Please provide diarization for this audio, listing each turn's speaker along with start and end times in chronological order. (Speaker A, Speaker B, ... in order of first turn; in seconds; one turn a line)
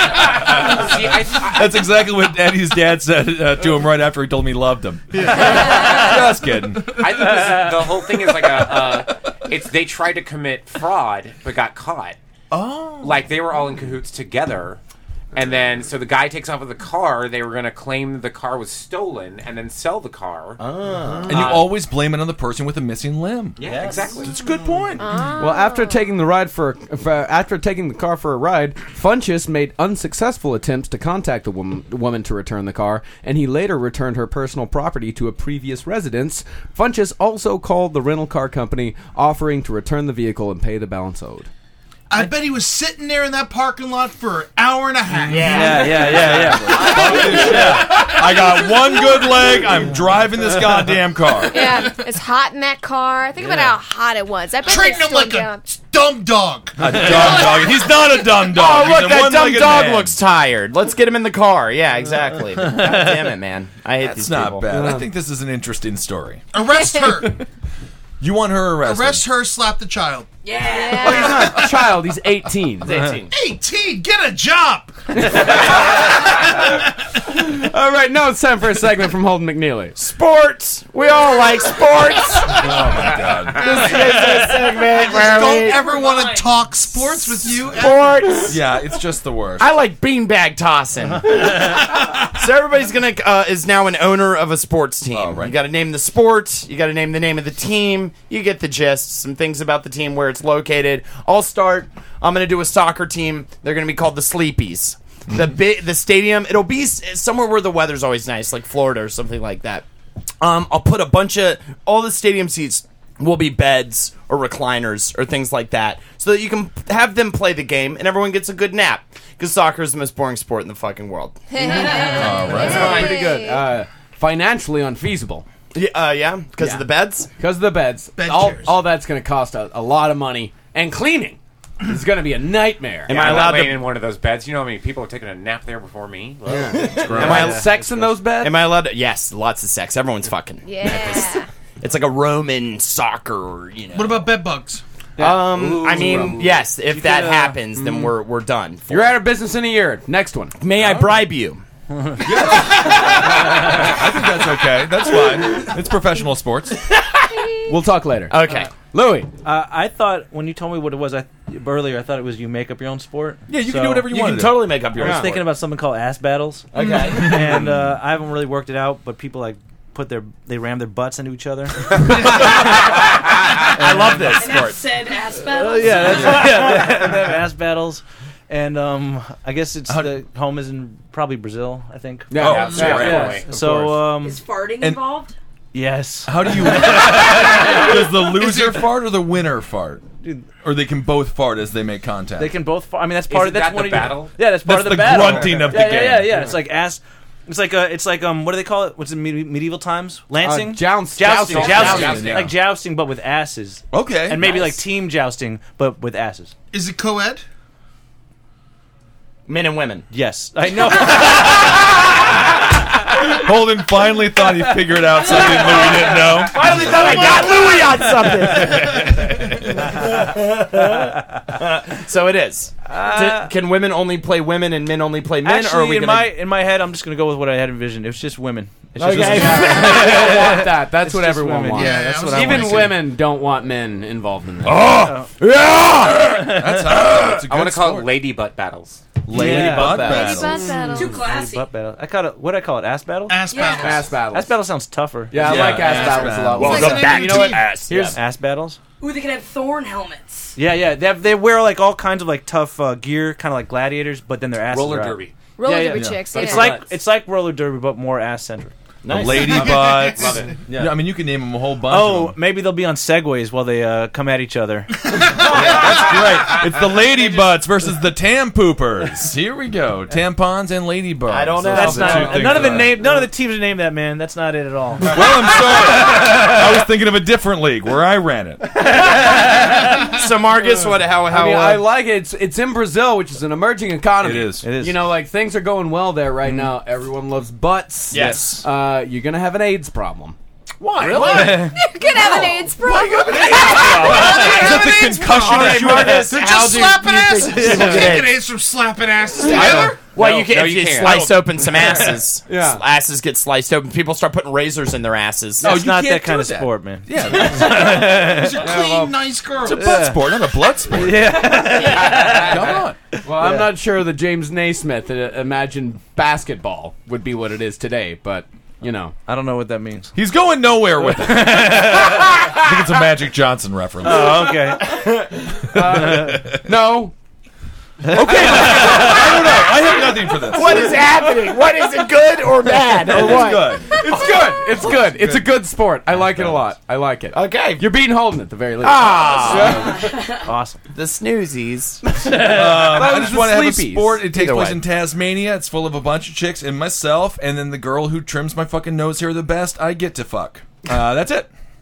Speaker A: 0.3-1.8
Speaker B: 1.3-7.1
Speaker C: 5.1-6.0
Speaker A: 7.0-12.2
Speaker B: 8.3-9.1
Speaker B: 12.5-13.3
Speaker A: 13.0-14.8
Speaker A: 15.3-21.6
Speaker D: 20.6-21.7
Speaker B: 21.3-23.7
Speaker A: 23.6-24.3
Speaker B: 24.2-25.1
Speaker E: 25.0-26.1
Speaker F: 25.4-41.5
Speaker C: 42.1-45.6
Speaker B: 45.1-51.9
Speaker D: 45.3-46.5
Speaker G: 45.4-48.0
Speaker C: 47.2-48.2
Speaker E: 51.5-55.6
Speaker G: 53.4-53.7
Speaker C: 54.6-57.9
Speaker B: 56.8-60.2
Speaker D: 58.4-64.7
Speaker B: 64.0-66.4
Speaker F: 64.7-65.1
Speaker C: 66.5-67.4
Speaker B: 68.2-69.2
Speaker C: 68.8-70.3
Speaker H: 70.4-71.3
Speaker E: 70.7-71.5
Speaker C: 71.0-71.8
Speaker F: 71.0-73.1
Speaker D: 72.9-73.3
Speaker C: 73.3-76.9
Speaker F: 75.2-75.6
Speaker F: 77.3-80.0
Speaker D: 80.0-85.8
Speaker B: 82.5-84.2
Speaker C: 83.6-84.2
Speaker H: 85.0-86.6
Speaker C: 85.1-88.3
Speaker D: 87.3-88.6
Speaker B: 88.5-89.8
Speaker D: 89.6-109.8
Speaker B: 95.1-95.6
Speaker D: 110.4-123.1
Speaker E: 121.5-123.7
Speaker B: 122.1-123.1
Speaker F: 122.5-125.5
Speaker D: 125.7-127.3
Speaker F: 126.6-133.6
Speaker C: 128.2-128.8
Speaker D: 133.1-133.9
Speaker A: 133.1-137.6
Speaker F: 136.5-138.6
Speaker G: 136.6-137.6
Speaker D: 136.7-144.4
Speaker E: 140.6-141.5
Speaker C: 143.9-144.8
Speaker D: 145.2-149.2
Speaker F: 145.2-145.4
Speaker A: 145.6-146.5
Speaker F: 146.0-146.3
Speaker G: 146.9-147.6
Speaker F: 148.9-150.6
Speaker D: 150.6-151.6
Speaker B: 150.7-151.2
Speaker G: 152.0-152.2
Speaker B: 152.2-156.8
Speaker F: 157.7-159.3
Speaker D: 158.3-158.7
Speaker G: 159.4-164.1
Speaker B: 163.5-164.9
Speaker D: 164.1-165.5
Speaker G: 164.9-173.1
Speaker F: 165.0-165.3
Speaker D: 166.7-167.7
Speaker B: 167.4-167.7
Speaker B: 172.0-172.8
Speaker D: 172.1-172.8
Speaker D: 173.6-174.8
Speaker G: 173.9-174.2
Speaker H: 174.3-176.5
Speaker G: 175.5-184.4
Speaker B: 179.9-180.1
Speaker F: 182.3-183.9
Speaker B: 182.4-183.4
Speaker A: 182.5-183.5
Speaker C: 182.7-183.1
Speaker H: 184.1-185.3
Speaker G: 185.7-188.1
Speaker B: 186.3-190.1
Speaker C: 188.4-188.8
Speaker B: 190.6-192.5
Speaker G: 192.4-206.5
Speaker A: 193.3-194.5
Speaker B: 194.5-196.4
Speaker F: 200.4-202.4
Speaker A: 201.4-202.4
Speaker D: 201.5-202.4
Speaker B: 201.9-202.6
Speaker B: 203.9-204.5
Speaker C: 206.7-207.4
Speaker D: 209.5-210.1
Speaker G: 210.1-212.3
Speaker B: 213.1-217.5
Speaker G: 216.4-218.3
Speaker D: 216.5-226.3
Speaker C: 216.6-217.8
Speaker B: 218.6-219.9
Speaker G: 222.9-223.6
Speaker G: 225.4-233.1
Speaker F: 229.0-236.5
Speaker D: 229.0-230.5
Speaker C: 231.7-233.0
Speaker G: 234.9-235.3
Speaker G: 236.1-236.8
Speaker B: 236.2-238.2
Speaker A: 237.4-239.0
Speaker B: 239.2-240.7
Speaker G: 239.3-243.5
Speaker F: 239.4-240.2
Speaker D: 239.6-240.2
Speaker E: 239.9-241.2
Speaker H: 240.9-241.7
Speaker C: 243.3-244.1
Speaker H: 243.5-244.0
Speaker F: 243.7-244.5
Speaker G: 244.3-245.9
Speaker F: 245.3-248.2
Speaker B: 245.3-246.9
Speaker D: 245.9-248.2
Speaker E: 246.6-246.9
Speaker C: 246.6-247.6
Speaker G: 248.1-248.8
Speaker H: 249.0-250.5
Speaker G: 250.6-258.7
Speaker A: 254.7-255.3
Speaker E: 255.6-256.8
Speaker B: 255.9-256.2
Speaker D: 256.4-256.7
Speaker D: 259.0-259.9
Speaker B: 259.1-262.4
Speaker C: 259.5-260.5
Speaker A: 260.1-260.6
Speaker G: 261.9-265.0
Speaker B: 265.4-273.0
Speaker D: 265.6-266.0
Speaker D: 267.2-267.5
Speaker D: 271.3-272.9
Speaker G: 271.7-275.2
Speaker B: 275.1-278.7
Speaker D: 280.1-281.9
Speaker F: 281.3-290.4
Speaker B: 284.2-284.6
Speaker G: 284.6-285.1
Speaker B: 286.5-286.7
Speaker D: 288.1-288.6
Speaker D: 291.0-291.6
Speaker F: 291.0-291.6
Speaker G: 291.2-291.7
Speaker E: 291.5-294.4
Speaker D: 292.2-292.5
Speaker B: 292.8-296.4
Speaker D: 293.5-298.4
Speaker C: 293.9-300.1
Speaker F: 297.6-298.2
Speaker D: 299.4-305.8
Speaker A: 299.7-301.6
Speaker F: 301.9-302.8
Speaker B: 305.6-308.0
Speaker G: 305.6-308.8
Speaker C: 307.7-310.0
Speaker F: 308.6-309.1
Speaker B: 309.6-313.0
Speaker G: 309.7-310.2
Speaker G: 310.9-312.8
Speaker F: 313.2-319.1
Speaker G: 313.3-313.7
Speaker G: 319.3-320.1
Speaker B: 320.1-324.8
Speaker G: 321.1-322.6
Speaker G: 324.0-325.0
Speaker F: 325.7-327.1
Speaker B: 325.8-326.6
Speaker G: 325.8-326.4
Speaker G: 328.0-329.4
Speaker B: 328.1-331.5
Speaker D: 330.4-333.8
Speaker B: 332.8-334.0
Speaker F: 333.9-340.0
Speaker B: 334.7-336.6
Speaker D: 337.3-337.9
Speaker D: 338.8-340.0
Speaker G: 340.4-340.8
Speaker D: 340.9-342.0
Speaker F: 342.2-344.2
Speaker B: 342.3-351.5
Speaker D: 344.3-344.8